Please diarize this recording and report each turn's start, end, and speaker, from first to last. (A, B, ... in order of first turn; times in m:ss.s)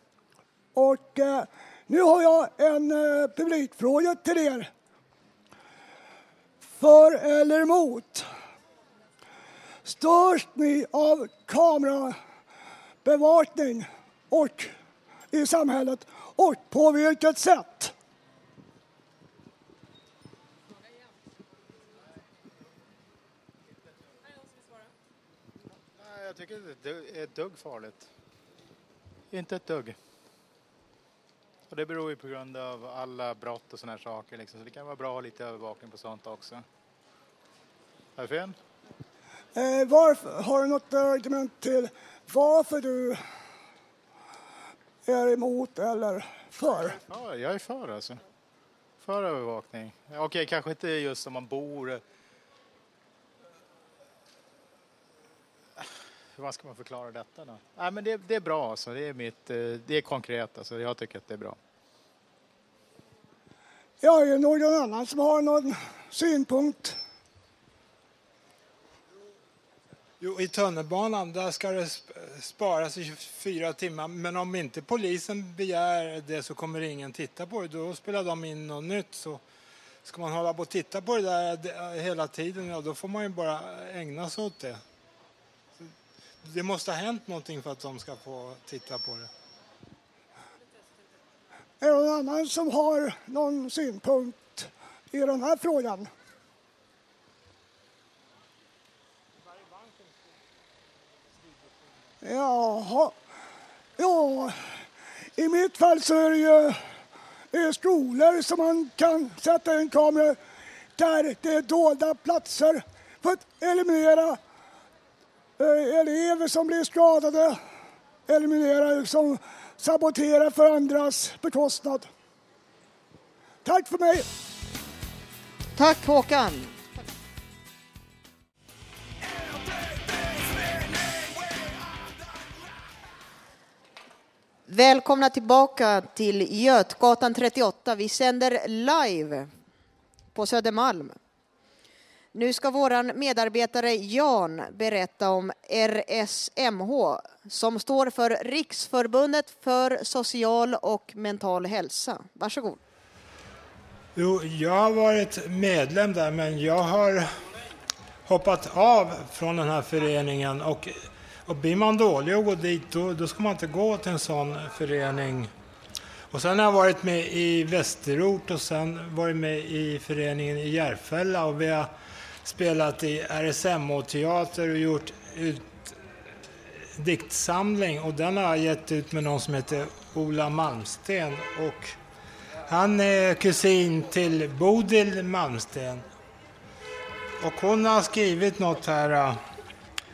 0:00.7-0:04.7 A
0:06.6-0:08.3 A
0:09.8-0:12.2 A
0:13.0-0:14.7 A
0:15.3-0:17.9 A
0:26.0-0:28.1 B
0:29.3-0:30.0 B
0:31.7-0:36.6 B
0:38.2-0:38.6 B
0:39.5-0:43.2 A
0:45.0-0:47.0 A
0:46.9-0:48.2 B
0:49.0-0:52.0 B
0:55.8-1:01.6 B
1:04.0-1:07.0 A
1:10.2-1:19.4 C
1:20.0-1:24.8 C
1:26.4-1:29.3 C
1:31.8-1:36.1 A
1:42.2-1:43.2 A
1:44.0-1:44.8 A
1:45.4-1:46.8 A
1:47.5-1:50.4 A
1:51.0-1:54.4 A
1:55.6-1:57.6 A
1:58.3-2:02.1 A
2:03.6-2:04.3 A
2:05.8-2:06.7 D
2:14.7-2:19.5 D
2:20.3-2:21.2 D
2:22.3-2:32.8 D
2:34.1-2:37.3 C
2:38.2-2:45.5 C
2:46.3-2:51.9 C
2:52.4-2:55.9 C
2:57.0-3:02.0 C
3:02.7-3:06.0 C
3:07.4-3:09.4 C